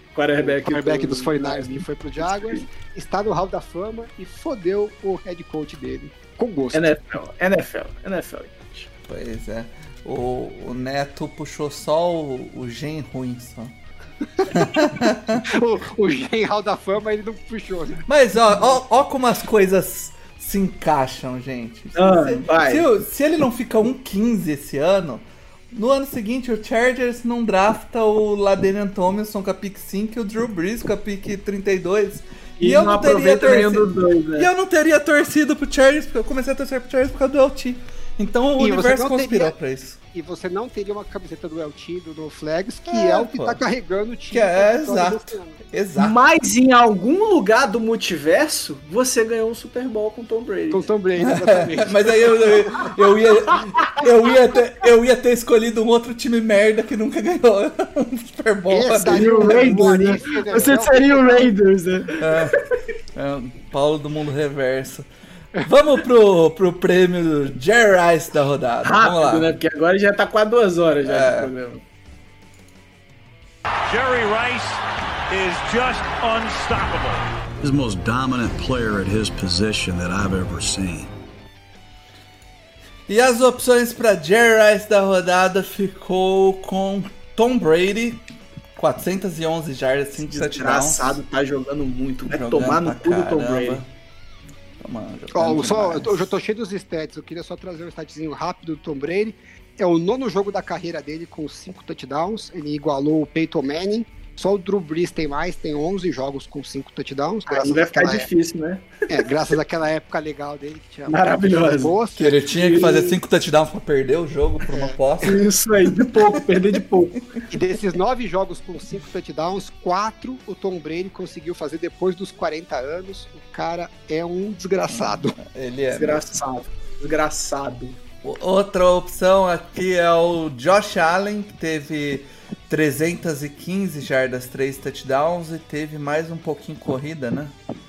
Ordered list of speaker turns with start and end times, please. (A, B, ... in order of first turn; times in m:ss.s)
0:00.2-0:02.6 A
0:00.4-0:06.9 B
0:06.7-0:08.9 A
0:09.1-0:13.7 C
0:14.5-0:15.4 C
0:15.4-0:18.0 B
0:18.1-0:40.0 C
0:22.0-0:22.9 A
0:32.6-0:34.5 A
0:38.6-0:39.5 B
0:40.1-0:45.6 B
0:42.9-0:43.6 C
0:44.3-0:46.2 C
0:46.0-0:50.8 A
0:50.7-0:52.9 B
0:51.2-0:59.8 C
0:58.7-1:01.5 B
0:59.0-1:02.8 A
1:02.2-1:02.6 C
1:03.1-1:05.1 C
1:05.6-1:09.5 C
1:08.8-1:11.8 A
1:11.0-1:11.5 C
1:13.9-1:17.3 D
1:17.6-1:21.1 E
1:23.1-1:28.2 C
1:28.8-1:31.2 C
1:30.2-1:33.8 A
1:32.3-1:33.9 C
1:34.8-1:36.3 C
1:35.3-1:48.3 B
1:47.5-1:49.2 A
1:49.1-1:53.2 B
1:51.1-1:51.9 A
1:52.2-1:55.4 C
1:52.6-1:52.9 A
1:54.7-1:55.0 B
1:55.2-1:57.2 A
1:57.5-2:05.4 B
2:04.9-2:06.4 C
2:05.9-2:08.0 A
2:08.2-2:17.6 C